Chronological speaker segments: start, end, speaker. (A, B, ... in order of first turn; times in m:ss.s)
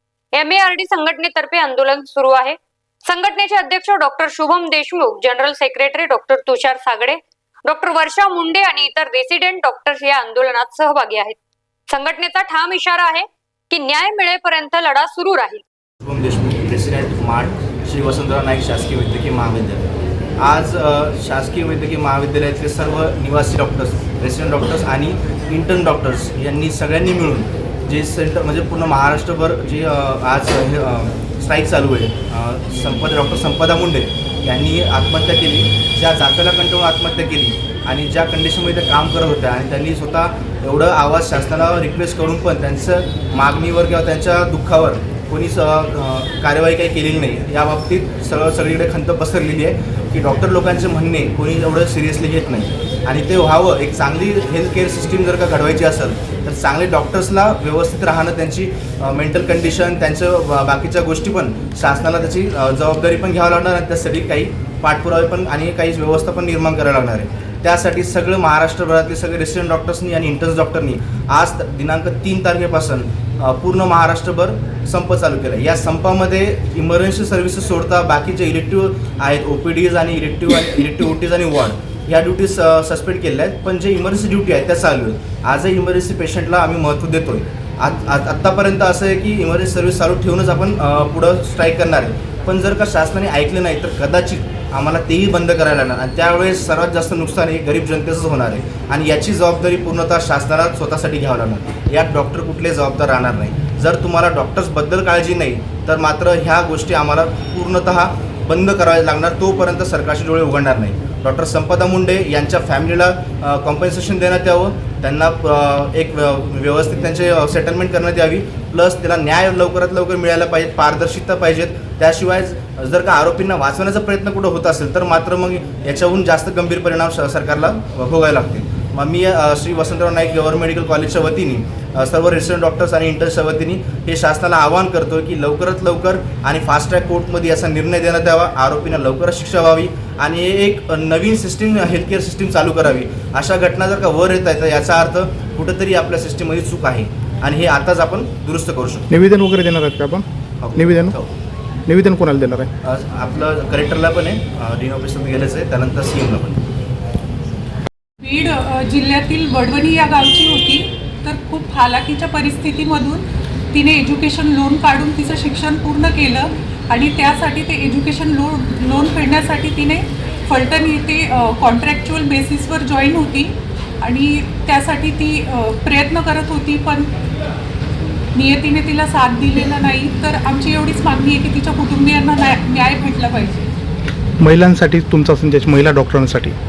0:00.3-0:02.6 A
0:03.1-0:11.4 A
0:11.9-0:15.6 A
0:16.0-0:19.8 B
0:20.4-2:29.1 B
2:29.1-2:30.2 C
2:30.6-2:31.3 B
2:30.8-2:31.2 C
2:31.9-2:32.7 C
2:32.8-2:36.6 B
2:38.2-2:43.2 D
2:43.7-2:57.1 D
2:58.4-3:03.7 D
3:04.4-3:06.6 C